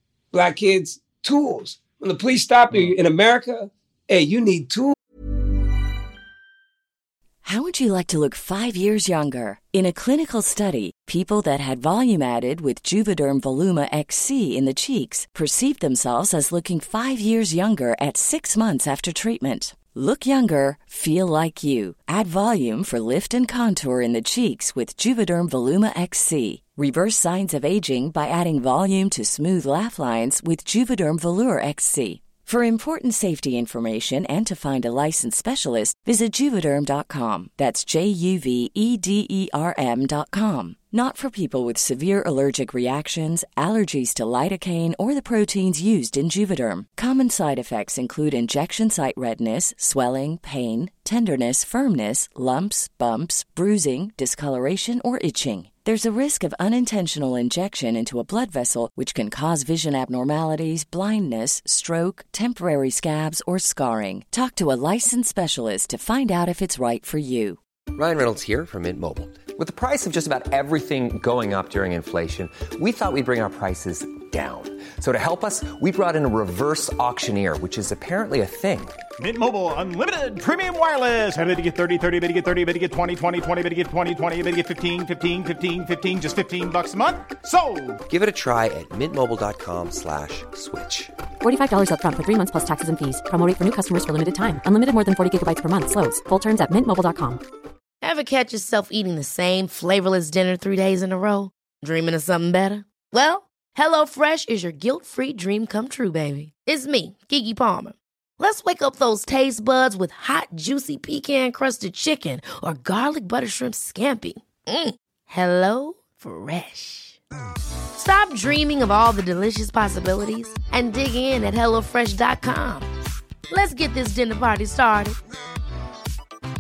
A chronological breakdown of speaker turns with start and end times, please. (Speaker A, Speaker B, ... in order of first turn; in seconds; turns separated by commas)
Speaker A: 0.3-5.0, Speaker B: 7.4-67.6, Speaker C: 68.0-79.0, Speaker D: 79.2-88.0, Speaker C: 88.1-91.1, Speaker E: 91.4-97.4, Speaker F: 98.0-117.2, Speaker F: 118.0-122.9, Speaker F: 123.5-125.2